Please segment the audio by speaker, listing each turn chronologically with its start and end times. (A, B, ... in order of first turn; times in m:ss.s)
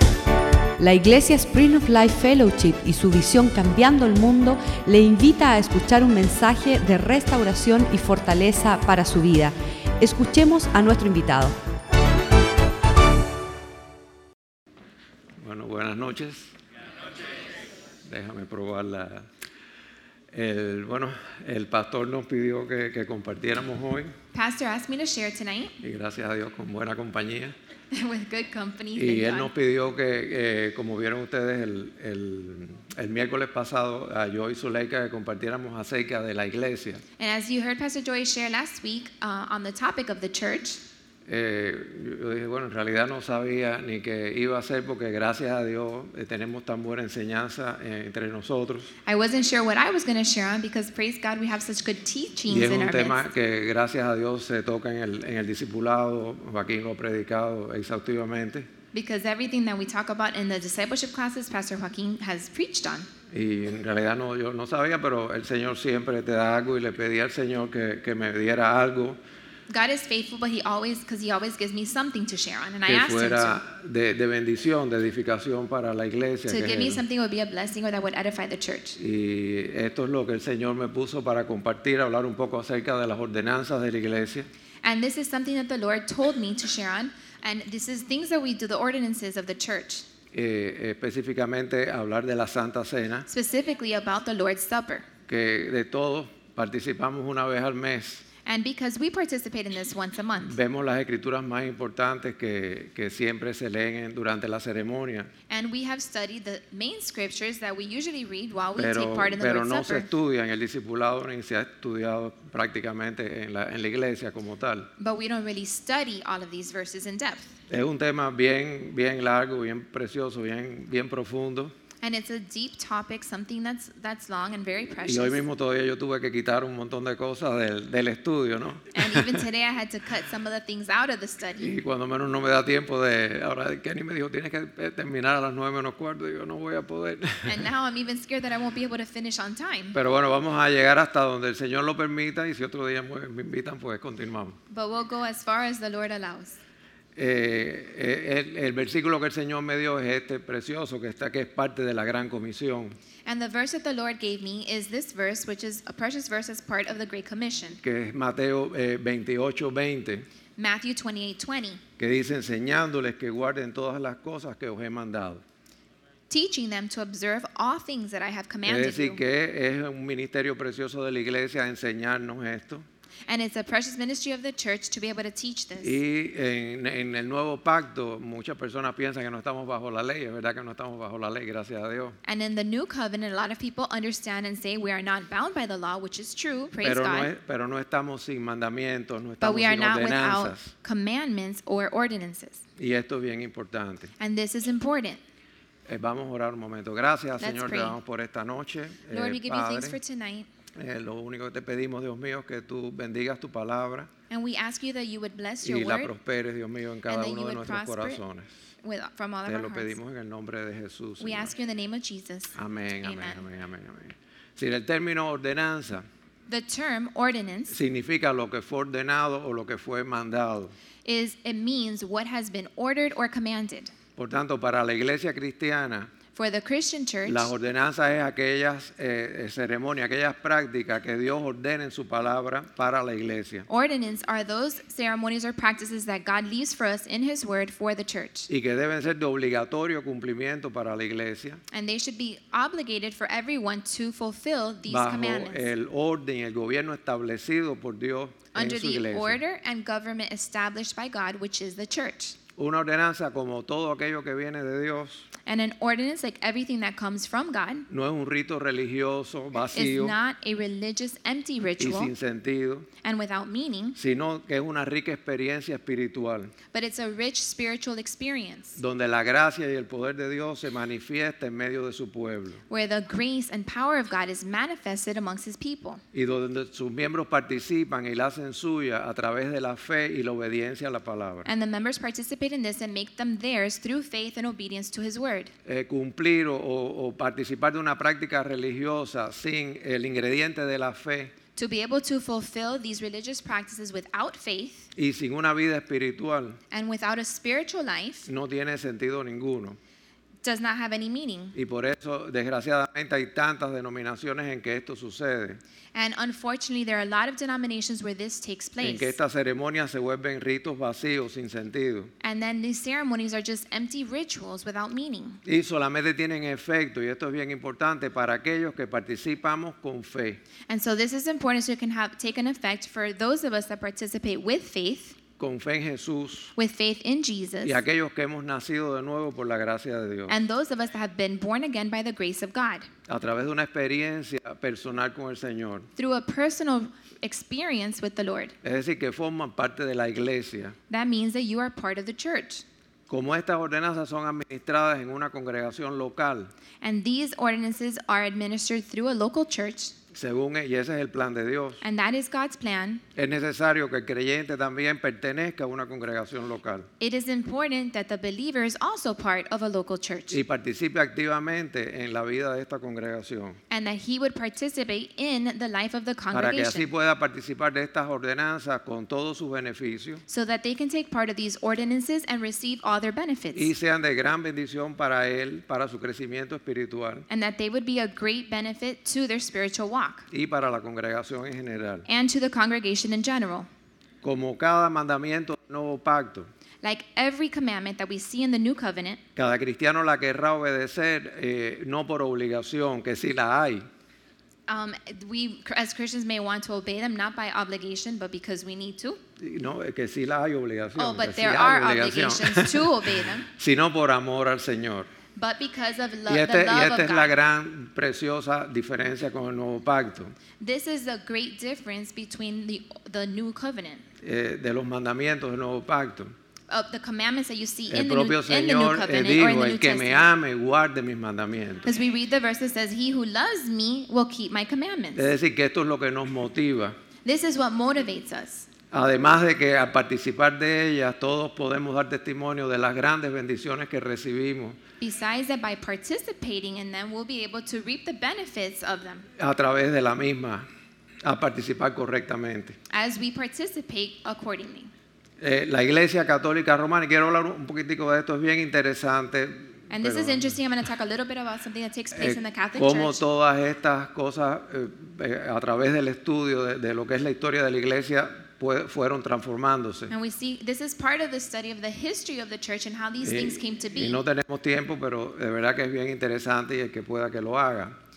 0:00.8-0:11.5 A
0:15.4-0:16.5 B
0:18.1-0:19.3 B
0:20.3-0:24.1 B
0:24.3-0:25.8 C
0:25.8-0:27.5 B
0:27.9-0:29.5 C
0:28.9-0:37.0 B
0:37.2-0:40.8 C
0:41.3-0:48.9 B
0:49.0-0:53.2 C
0:52.5-0:58.7 B
0:58.9-1:03.1 C
1:03.3-1:09.2 B
1:09.7-1:13.6 C
1:12.8-1:17.0 B
1:16.5-1:19.0 C
1:19.0-1:24.5 B
1:24.8-1:30.0 C
1:30.3-1:33.3 B
1:33.3-1:35.1 C
1:35.3-1:38.2 B
1:38.4-1:40.5 C
1:40.4-1:45.3 B
1:45.5-1:50.1 C
1:48.8-1:54.9 B
1:55.0-1:57.6 C
1:57.7-2:01.7 B
2:02.0-2:05.4 C
2:05.0-2:09.4 B
2:08.9-2:11.7 C
2:11.6-2:17.6 B
2:17.4-2:20.0 C
2:19.9-2:24.6 B
2:24.7-2:26.6 C
2:27.2-2:33.0 B
2:33.2-2:37.8 C
2:37.8-2:40.3 B
2:40.6-2:41.8 C
2:42.0-2:45.4 B
2:46.3-2:49.2 C
2:48.7-2:52.8 B
2:53.3-2:56.0 C
2:55.8-3:02.2 B
3:02.2-3:07.3 C
3:06.8-3:10.7 B
3:09.4-3:12.6 C
3:12.8-3:14.1 B
3:14.2-3:15.2 C
3:15.9-3:20.0 B
3:17.4-3:18.0 C
3:19.1-3:20.5 C
3:20.8-3:24.1 B
3:24.3-3:26.1 C
3:25.6-3:28.5 B
3:27.1-3:28.2 C
3:28.8-3:30.0 C
3:29.5-3:31.5 B
3:31.2-3:33.4 C
3:32.5-3:36.0 B
3:36.5-3:37.8 C
3:37.7-3:40.7 B
3:41.0-3:43.9 C
3:44.2-3:46.1 B
3:46.3-3:47.5 C
3:47.3-3:53.7 B
3:53.7-3:58.5 C
3:58.5-4:01.6 B
4:01.7-4:05.7 C
4:04.9-4:09.4 B
4:08.5-4:12.4 C
4:12.6-4:15.3 B
4:15.5-4:17.9 C
4:17.9-4:20.2 B
4:19.7-4:22.1 C
4:21.8-4:22.9 B
4:23.0-4:24.0 C
4:24.0-4:26.5 B
4:26.7-4:28.8 C
4:28.8-4:32.6 B
4:32.7-4:36.0 C
4:36.1-4:41.5 B
4:41.4-4:45.5 C
4:45.6-4:51.3 B
4:51.6-4:54.9 C
4:55.0-4:56.6 B
4:56.7-4:58.3 C
4:58.2-4:59.8 B
5:00.4-5:01.6 C
5:01.5-5:05.6 B
5:05.9-5:09.2 C
5:08.8-5:12.1 B
5:12.2-5:15.4 C
5:15.4-5:20.4 B
5:20.7-5:25.2 C
5:25.4-5:26.5 B
5:26.6-5:27.8 C
5:27.6-5:30.3 B
5:30.3-5:32.9 C
5:33.1-5:35.9 B
5:36.0-5:38.5 C
5:38.6-5:40.8 B
5:40.9-5:42.6 C
5:43.1-5:46.5 B
5:46.8-5:49.9 C
5:50.1-5:51.8 B
5:51.8-5:53.0 C
5:53.1-5:56.9 B
5:57.0-6:00.4 C
6:00.3-6:03.6 B
6:03.7-6:06.9 C
6:06.3-6:10.2 B
6:10.3-6:13.7 C
6:13.5-6:17.3 B
6:17.3-6:20.3 C
6:20.3-6:22.1 B
6:22.1-6:23.7 C
6:24.2-6:26.5 B
6:26.8-6:29.2 C
6:29.4-6:33.9 B
6:34.7-6:39.2 C
6:39.4-6:45.1 B
6:41.0-6:43.5 C
6:45.4-6:47.3 C
6:46.3-6:50.3 B
6:50.6-6:54.0 C
6:54.2-6:56.3 B
6:56.7-7:00.2 C
6:57.9-7:01.8 B
7:01.8-7:05.3 C
7:05.2-7:07.0 B
7:07.2-7:08.7 C
7:08.9-7:14.8 B
7:15.0-7:19.2 C
7:19.4-7:20.6 B
7:21.2-7:22.8 B
7:22.9-7:24.9 C
7:25.4-7:30.5 B
7:29.9-7:33.2 C
7:32.2-7:40.1 B
7:40.1-7:44.2 C
7:43.2-7:47.9 B